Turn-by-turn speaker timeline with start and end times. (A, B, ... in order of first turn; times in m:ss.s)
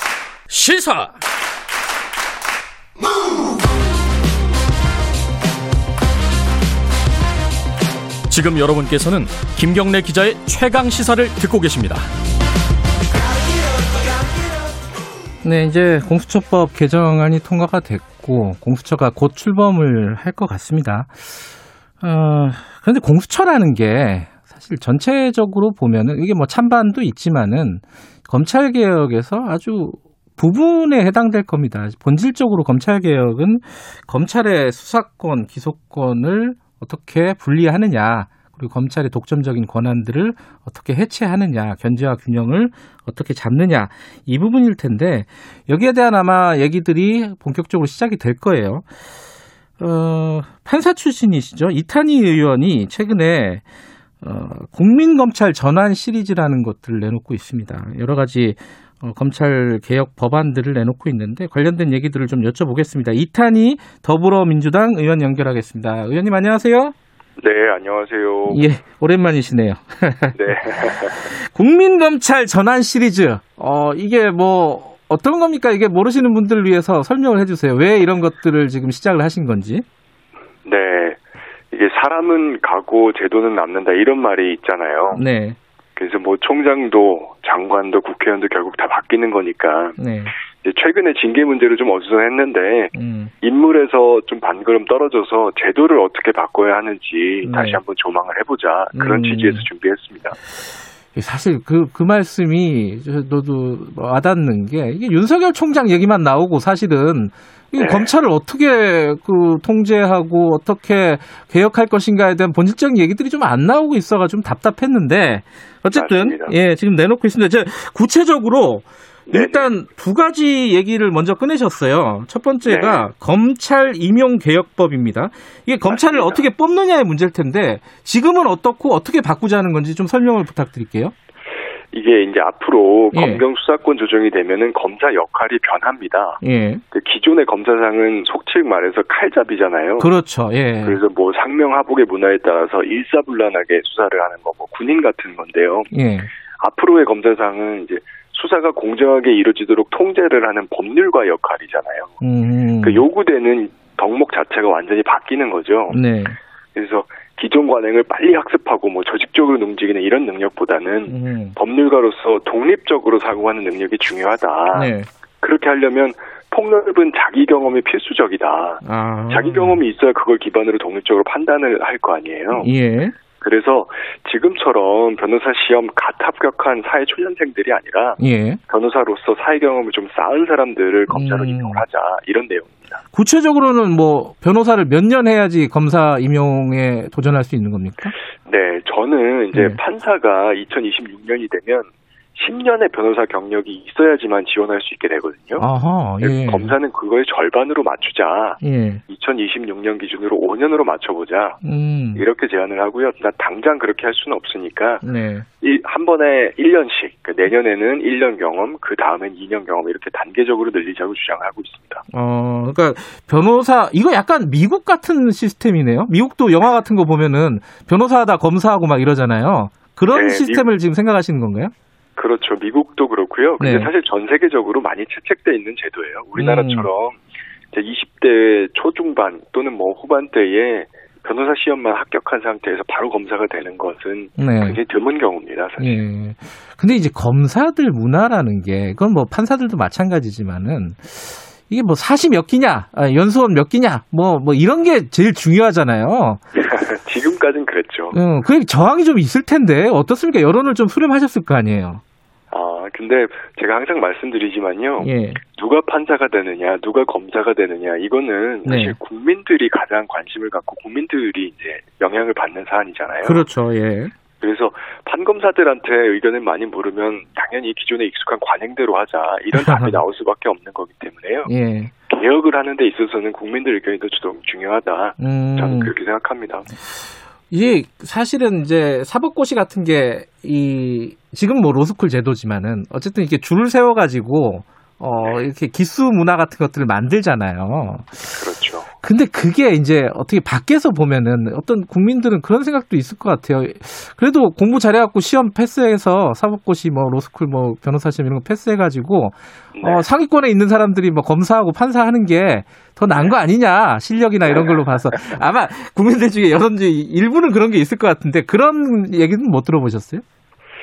0:00.5-0:01.2 A
0:08.3-0:12.1 A
0:15.4-0:21.3 B
0:22.0-0:48.9 B
0:49.8-0:53.6 B
0:54.2-1:06.9 B
1:07.4-1:08.7 C
1:08.5-1:19.8 B
1:10.4-1:11.3 C
1:20.6-1:21.2 C
1:21.7-1:25.2 C
1:25.1-1:25.6 B
1:26.0-1:30.0 C
1:30.0-1:30.3 B
1:30.6-1:40.4 C
1:32.9-1:33.3 B
1:37.4-1:37.8 B
1:38.9-1:39.7 B
1:41.1-2:11.1 B
1:47.8-1:48.1 C
1:55.9-1:56.5 C
1:59.3-1:59.7 C
2:02.6-2:03.1 C
2:05.9-2:06.4 C
2:11.9-2:16.4 C
2:13.1-2:13.4 B
2:16.4-2:16.8 B
2:16.9-2:20.1 C
2:20.0-2:21.0 B
2:20.8-2:25.9 C
2:25.9-2:26.3 B
2:26.6-2:32.2 C
2:32.2-2:33.0 B
2:32.8-2:36.0 C
2:35.9-2:36.4 B
2:36.8-2:44.9 C
2:41.1-2:41.6 B
2:44.7-2:45.1 B
2:45.4-2:52.7 C
2:48.8-2:49.8 B
2:52.5-2:53.1 B
2:53.4-3:03.0 C
2:58.2-2:58.6 B
3:01.1-3:01.8 B
3:03.1-3:08.1 B
3:08.4-3:15.6 C
3:09.5-3:09.8 B
3:15.6-3:16.8 B
3:16.2-3:21.6 C
3:18.6-3:19.0 B
3:21.6-3:22.2 B
3:22.2-3:25.0 C
3:25.0-3:25.5 B
3:25.6-3:32.0 C
3:32.1-3:41.7 B
3:40.1-3:40.7 C
3:42.2-3:47.2 C
3:43.6-3:43.9 B
3:46.4-3:46.9 B
3:47.7-3:56.0 C
3:54.4-3:54.8 B
3:55.8-4:06.4 B
4:06.6-4:08.2 C
4:08.1-4:12.0 B
4:12.5-4:23.5 C
4:15.0-4:15.4 B
4:18.6-4:19.0 B
4:23.2-4:24.1 B
4:24.4-4:31.5 C
4:29.6-4:30.0 B
4:31.5-4:31.9 B
4:32.1-4:36.7 C
4:35.2-4:35.9 B
4:37.0-4:48.3 B
4:48.3-4:48.9 C
4:49.0-5:10.2 B
4:59.8-5:00.1 C
5:04.5-5:04.8 C